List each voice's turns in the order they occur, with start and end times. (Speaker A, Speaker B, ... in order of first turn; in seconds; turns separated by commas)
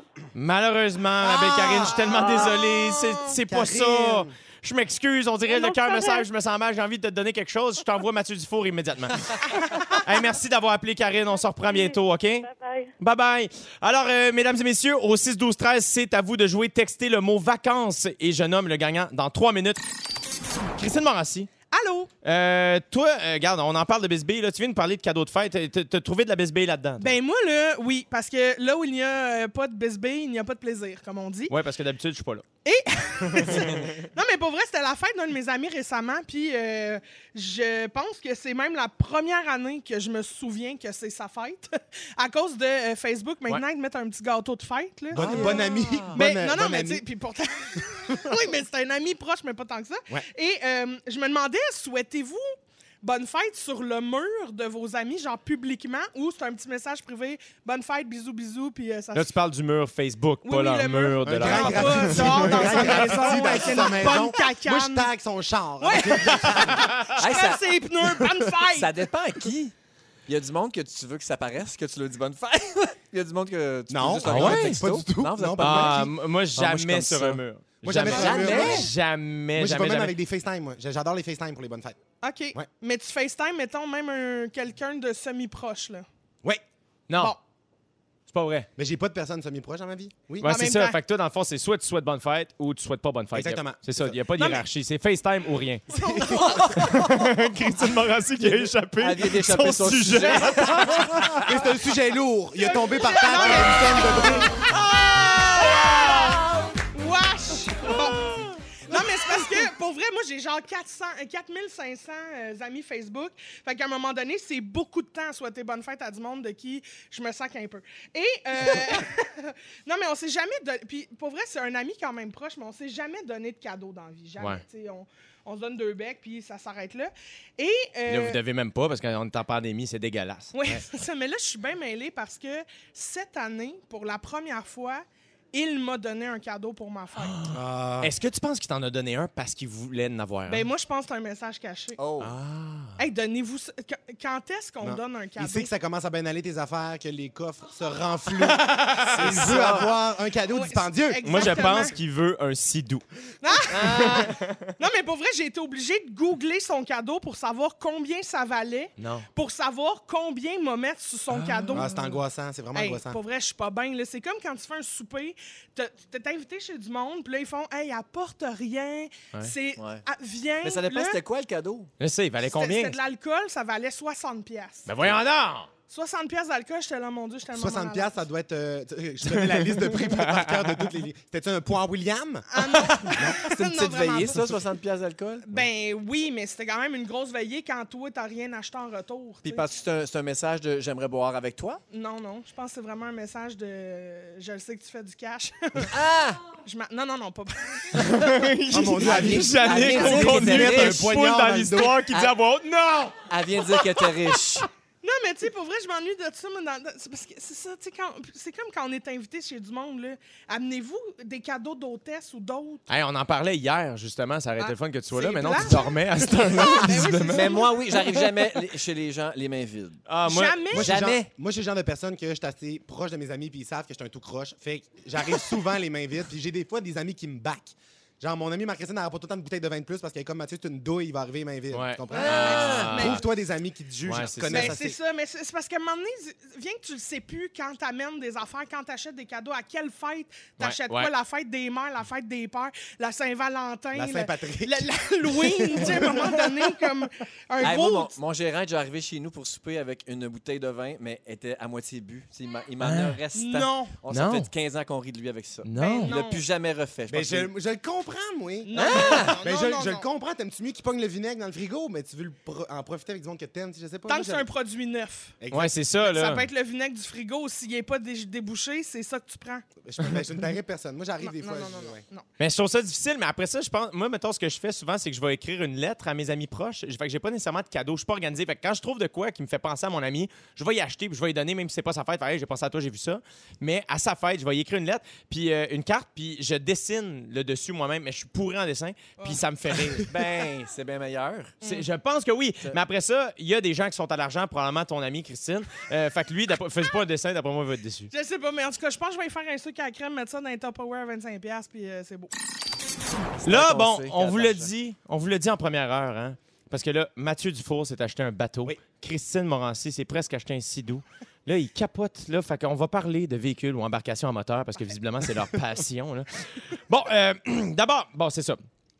Speaker A: 0.3-12.5, Speaker B: 1.2-3.4, Speaker C: 1.2-2.5, Speaker C: 3.4-4.3, Speaker D: 5.5-6.3, Speaker D: 11.5-12.9, Speaker A: 13.0-19.8, Speaker A: 20.8-21.5, Speaker B: 21.7-22.1, Speaker A: 22.2-27.1, Speaker B: 27.0-31.5, Speaker A: 31.5-32.5, Speaker B: 32.6-59.3, Speaker A: 33.3-33.9, Speaker C: 45.1-47.0, Speaker E: 45.1-46.2, Speaker A: 59.1-63.6, Speaker B: 60.4-65.1, Speaker C: 61.2-67.0, Speaker E: 63.6-64.1, Speaker B: 65.8-68.9, Speaker A: 66.7-67.2, Speaker E: 67.1-69.7, Speaker E: 70.3-77.4, Speaker C: 73.9-76.1, Speaker A: 74.2-74.8, Speaker A: 75.6-80.1, Speaker C: 77.8-78.9, Speaker E: 78.0-78.9, Speaker B: 78.1-78.9, Speaker C: 79.5-82.0, Speaker B: 82.2-86.0, Speaker A: 87.1-87.3, Speaker A: 88.3-88.7, Speaker C: 88.8-90.5, Speaker A: 90.4-101.5, Speaker B: 90.4-91.0, Speaker C: 93.3-94.2, Speaker B: 94.4-94.6, Speaker B: 95.9-97.1, Speaker C: 96.0-96.6, Speaker E: 99.0-101.3, Speaker B: 100.2-100.5, Speaker C: 101.2-104.5, Speaker B: 102.6-128.4, Speaker A: 128.1-130.8, Speaker B: 130.5-137.4, Speaker A: 137.2-140.6, Speaker C: 137.5-138.1, Speaker B: 140.5-142.0, Speaker E: 142.0-142.3, Speaker A: 142.2-143.0, Speaker B: 143.0-145.7, Speaker C: 144.8-151.7, Speaker A: 148.6-149.9, Speaker E: 149.1-149.9, Speaker B: 150.5-151.9, Speaker A: 151.2-153.0, Speaker B: 153.4-162.1, Speaker A: 153.7-154.8, Speaker E: 153.7-154.3, Speaker A: 159.0-159.3, Speaker A: 161.3-161.8, Speaker C: 161.7-163.2, Speaker B: 162.7-171.2, Speaker E: 169.8-170.0, Speaker E: 170.6-171.9, Speaker A: 172.0-173.0, Speaker B: 172.4-174.9, Speaker A: 174.8-175.7, Speaker B: 175.9-178.2, Speaker C: 177.5-182.4, Speaker A: 179.3-180.9, Speaker B: 182.5-184.5, Speaker A: 182.6-183.2, Speaker E: 183.2-185.5, Speaker B: 185.4-189.7, Speaker E: 189.4-191.8, Speaker B: 191.9-195.9, Speaker E: 195.8-196.4, Speaker B: 196.6-198.3, Speaker A: 198.0-203.2, Speaker C: 198.7-202.0, Speaker E: 199.0-201.1, Speaker E: 202.1-202.3, Speaker E: 203.3-204.7, Speaker B: 205.0-212.8, Speaker A: 212.9-218.1, Speaker B: 214.6-217.9, Speaker E: 217.3-220.0, Speaker A: 220.1-220.7, Speaker B: 220.2-220.9, Speaker C: 220.7-235.0, Speaker E: 220.8-221.3, Speaker A: 231.7-233.2, Speaker E: 232.1-233.1, Speaker B: 232.5-233.2, Speaker A: 234.0-234.8, Speaker B: 234.5-248.1, Speaker A: 240.6-241.1, Speaker C: 243.9-246.6, Speaker E: 247.6-257.5, Speaker A: 252.8-253.2, Speaker B: 253.3-253.9, Speaker A: 254.1-254.5, Speaker A: 255.6-256.1, Speaker B: 255.8-256.4, Speaker C: 257.1-264.5, Speaker B: 258.6-260.0, Speaker E: 258.7-259.4, Speaker B: 264.1-265.3, Speaker C: 265.4-265.7, Speaker A: 265.5-266.4, Speaker B: 266.0-269.6, Speaker C: 269.8-272.0, Speaker B: 271.2-272.3, Speaker A: 272.4-290.1, Speaker E: 290.0-291.6, Speaker B: 291.6-291.9, Speaker A: 291.6-298.1, Speaker B: 298.1-302.3, Speaker E: 303.3-304.7, Speaker A: 303.4-318.6